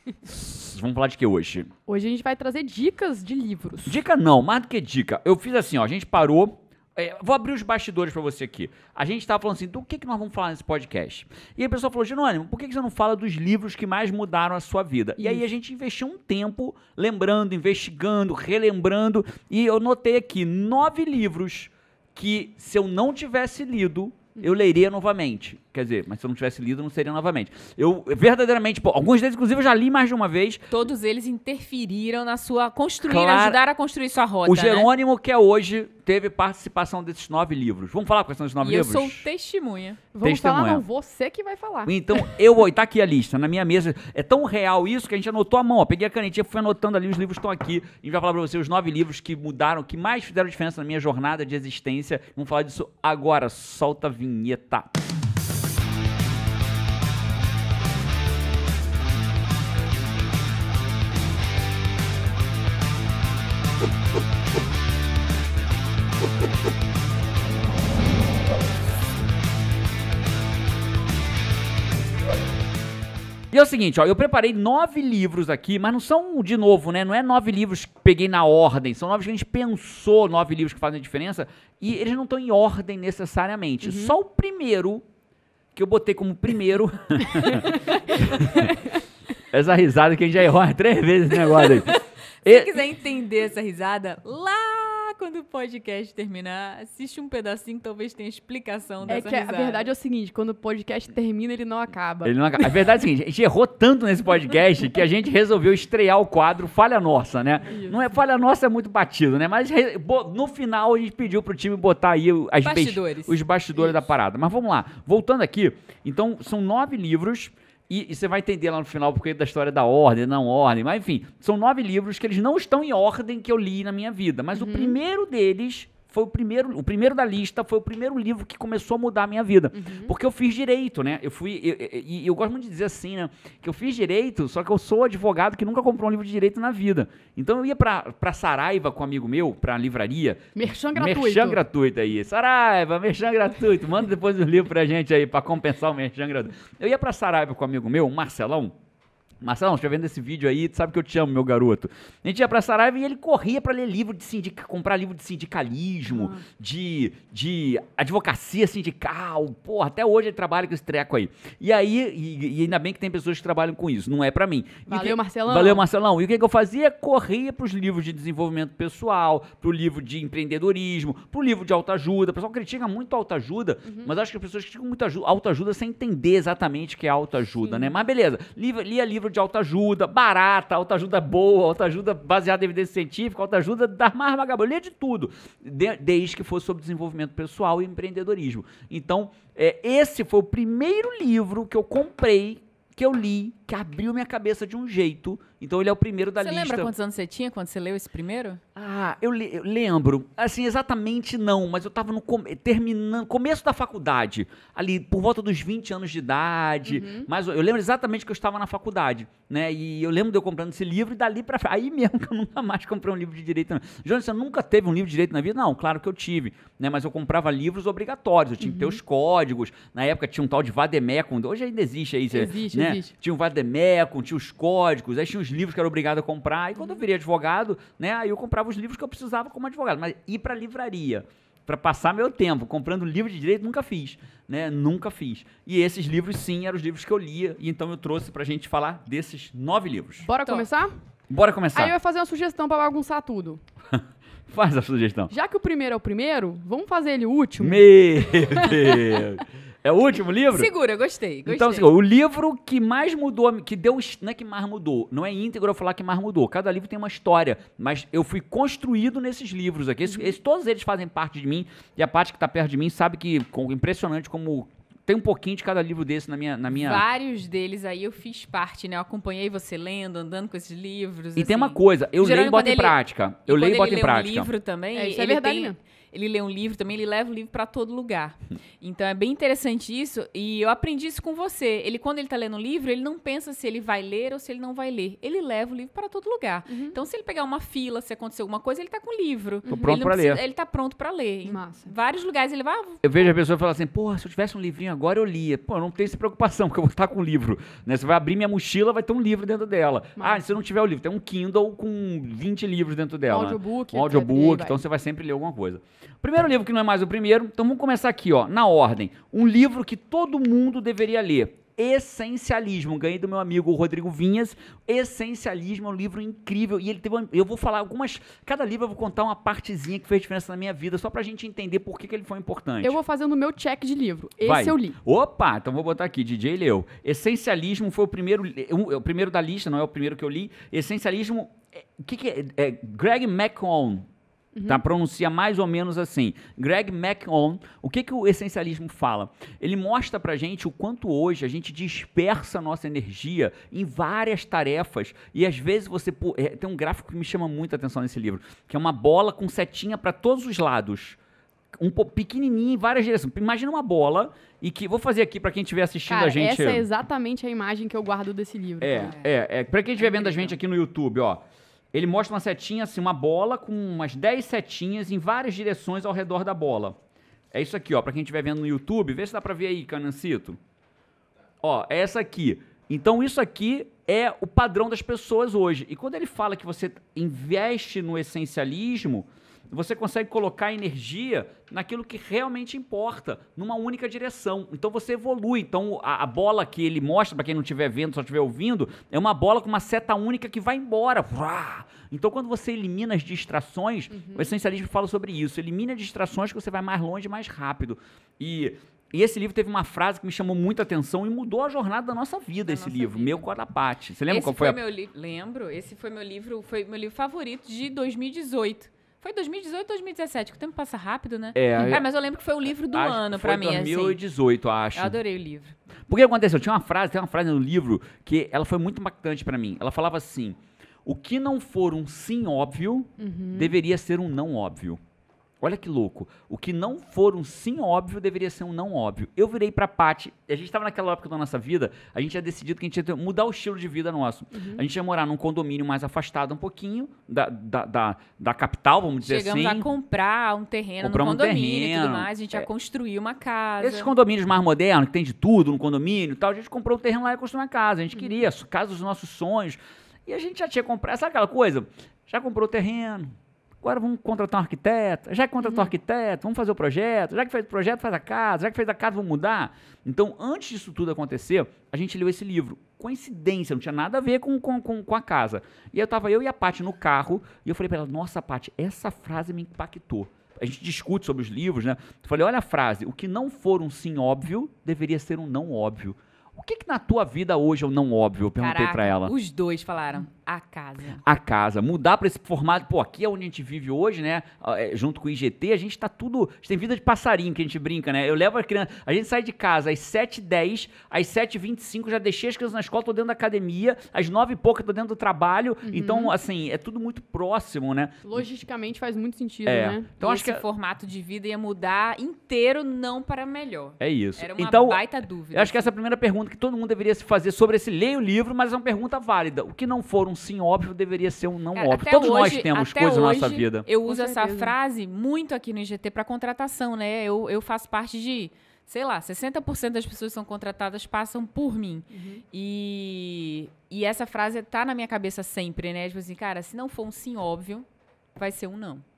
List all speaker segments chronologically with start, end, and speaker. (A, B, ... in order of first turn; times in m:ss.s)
0:00.2-0:01.7 A
0:01.9-0:04.0 B
0:03.9-0:30.7 A
0:15.2-0:15.4 B
0:30.7-0:34.9 C
0:33.1-0:33.6 A
0:34.4-0:39.3 A
0:38.6-0:40.1 C
0:40.1-0:42.0 B
0:40.2-0:40.8 A
0:41.9-0:54.9 A
1:13.5-1:25.0 A
1:23.8-1:24.2 B
1:25.8-1:28.8 A
1:29.5-1:32.7 A
1:31.6-1:39.9 C
1:39.1-1:42.4 B
1:42.2-2:28.7 A
1:47.7-1:48.0 B
1:52.6-1:53.4 C
2:04.6-2:05.0 B
2:09.7-2:10.1 B
2:20.6-2:21.6 B
2:29.4-3:16.9 A
2:36.1-2:36.4 B
2:44.9-2:45.8 B
2:53.9-2:54.1 B
2:57.6-2:57.9 B
3:16.4-3:18.6 C
3:18.8-4:00.3 A
3:26.9-3:27.3 B
3:38.6-3:39.0 B
3:42.3-3:43.1 B
4:00.2-4:01.0 B
4:00.4-4:00.7 C
4:01.3-4:02.0 A
4:01.7-4:03.6 B
4:04.0-4:05.3 A
4:05.3-4:07.9 B
4:07.6-4:10.7 A
4:10.5-4:11.9 C
4:11.4-4:27.0 A
4:26.7-4:53.3 C
4:31.4-4:34.5 A
4:34.9-4:35.8 B
4:46.7-4:47.0 B
4:49.7-4:50.4 A
4:51.5-4:51.9 B
4:53.0-5:23.0 A
5:00.2-5:00.4 B
5:03.3-5:04.8 B
5:22.8-5:25.0 B
5:24.4-5:34.1 A
5:34.6-5:34.8 B
5:34.7-5:51.2 A
5:51.8-5:56.9 A
5:56.1-5:59.1 B
5:58.8-6:07.0 A
5:58.9-5:59.3 C
6:00.0-6:00.6 C
6:07.5-6:10.6 A
6:11.6-6:44.8 A
6:34.1-6:34.5 B
6:42.7-6:43.4 C
6:44.3-6:54.2 C
6:51.5-6:52.0 A
6:52.9-6:55.2 A
6:55.0-6:55.8 C
6:56.1-7:05.0 A
7:03.2-7:03.8 B
7:05.6-7:19.9 A
7:14.5-7:14.8 B
7:19.2-7:24.1 C
7:21.0-7:22.7 A
7:23.8-7:59.3 A
7:58.6-8:01.2 C
8:01.2-8:18.4 A
8:15.8-8:16.3 B
8:18.2-8:20.1 B
8:19.7-8:20.6 A
8:20.2-8:25.9 C
8:24.0-8:25.0 A
8:25.5-8:33.9 A
8:31.8-8:47.8 C
8:34.1-8:34.7 B
8:42.1-8:42.4 B
8:48.4-8:49.0 C